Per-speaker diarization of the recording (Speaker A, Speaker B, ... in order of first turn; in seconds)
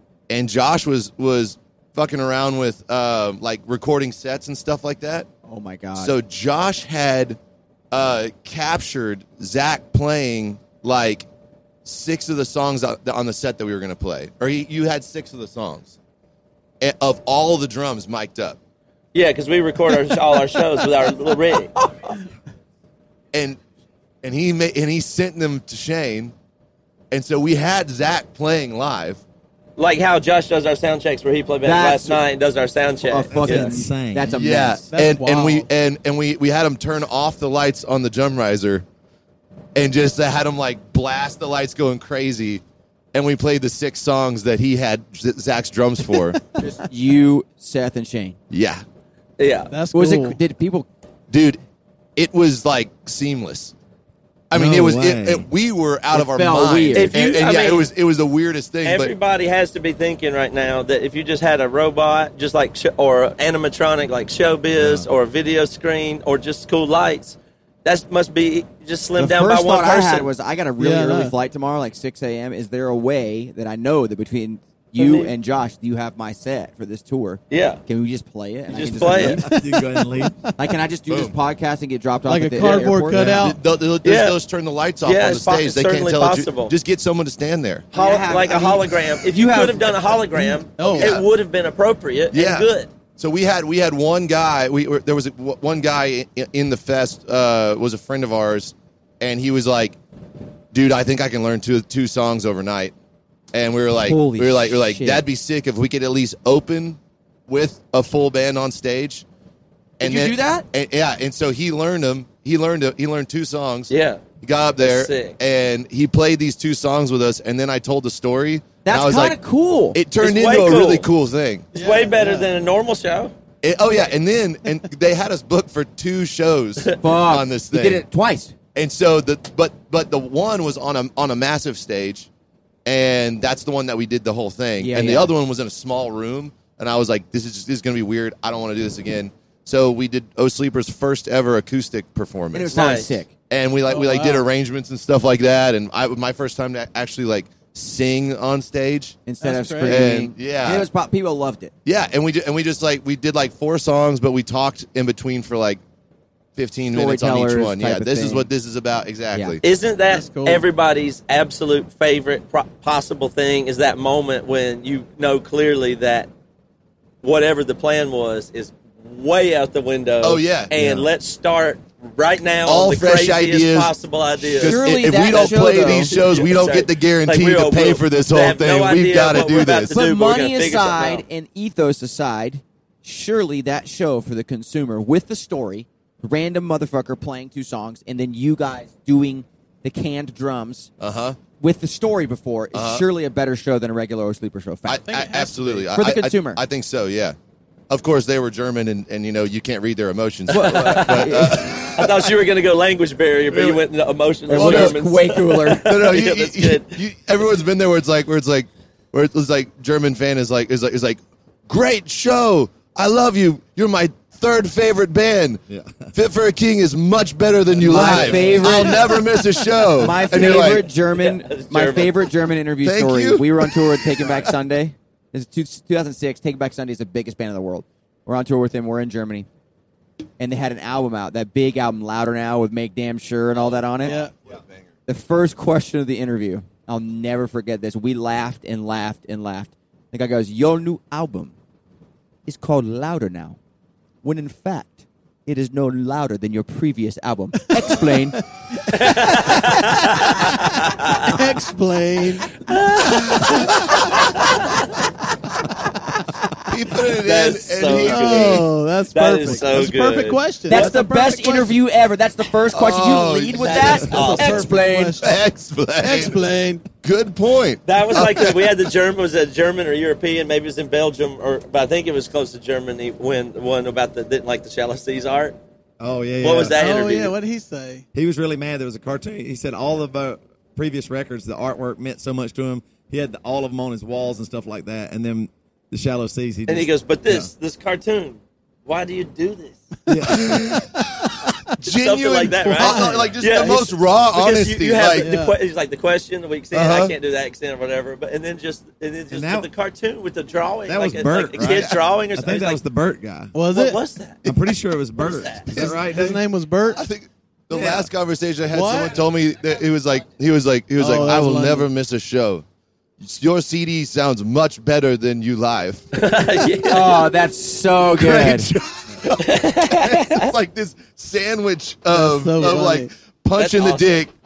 Speaker A: 0.3-5.3, 6.0-7.4, 7.9-11.3, 11.8-16.0, 16.8-18.6, 23.3-23.6, 24.2-26.3, 27.1-29.2, 34.3-38.8, 39.8-42.6, 43.1-46.4, 48.5-48.8, 51.3-51.6, 52.2-53.7, 54.5-59.1, 81.1-81.3, 83.1-87.9, 90.8-91.2, 92.3-100.0, 100.7-102.9, 103.5-109.2, 110.0-113.9, 114.4-119.4, 119.9-121.7, 123.6-128.0, 128.8-132.3, 132.9-143.0, 143.5-149.2, 149.8-150.9, 151.8-155.8, 156.6-159.6, 170.2-171.1, 172.7-179.9, 191.0-191.4, 192.7-193.1, 194.9-197.3, 197.9-202.3, 203.5-203.8, 204.5-205.0, 205.8-220.9, 222.8-224.5, 233.7-234.8, 256.7-258.7, 262.7-264.3, 265.2-266.4, 267.0-268.7, 290.3-290.9, 291.7-295.3, 296.7-297.1, 301.6-302.0, 304.4-304.8, 305.7-306.0, 306.9-312.6, 313.2-316.1, 318.2-324.3
Speaker B: 5.5-6.1, 31.6-32.2, 33.0-34.9, 46.6-48.4, 49.9-50.9, 56.1-57.1, 69.2-79.6, 80.6-83.5, 87.9-90.0, 104.0-105.3, 110.0-110.7, 118.8-120.0, 127.0-128.6, 134.8-135.3, 142.5-143.3, 149.3-151.7, 156.9-158.5, 159.3-159.6, 174.6-176.2, 179.9-190.9, 191.6-195.2, 195.9-196.6, 200.5-201.7, 204.5-205.9, 217.8-219.3, 219.9-229.5, 230.4-234.2, 235.1-241.5, 242.5-243.6, 244.2-248.4, 260.7-265.2, 316.9-318.7
Speaker C: 19.1-21.7, 29.8-33.8, 49.4-49.7, 56.9-57.9, 58.8-70.3, 75.0-75.3, 77.5-77.8, 78.7-79.4, 84.0-84.4, 85.0-86.7, 87.9-92.9, 113.9-114.2, 114.8-115.4, 120.2-121.1, 121.8-123.3, 142.7-143.2, 159.6-166.3, 167.2-181.2, 200.5-207.0, 220.3-222.3, 248.9-251.4, 252.6-254.9, 257.2-260.9, 263.6-264.7, 267.9-275.6, 276.4-277.4, 286.7-289.8, 291.9-302.8, 303.7-304.4, 305.2-305.7, 316.1-317.2, 319.2-320.5, 323.6-324.3
Speaker D: 33.3-34.4, 54.5-55.5, 79.5-80.4, 83.2-83.4, 215.7-216.1, 217.8-218.8, 276.0-276.8, 278.1-287.5, 290.1-290.8, 299.3-299.7, 300.9-303.6, 304.5-306.4, 307.7-308.1
Speaker E: 34.9-35.7, 49.7-50.4, 70.8-71.3, 79.5-80.3, 82.3-83.6, 90.8-91.1, 121.7-122.5, 143.9-144.5, 149.4-150.1, 160.1-160.6, 195.1-195.9, 234.0-234.3, 251.2-252.6, 257.9-261.8, 263.8-265.4, 266.0-266.9, 276.7-278.1, 292.7-293.4, 295.2-295.6, 303.5-304.0, 305.8-307.0, 308.7-309.2, 311.0-311.9, 322.1-323.1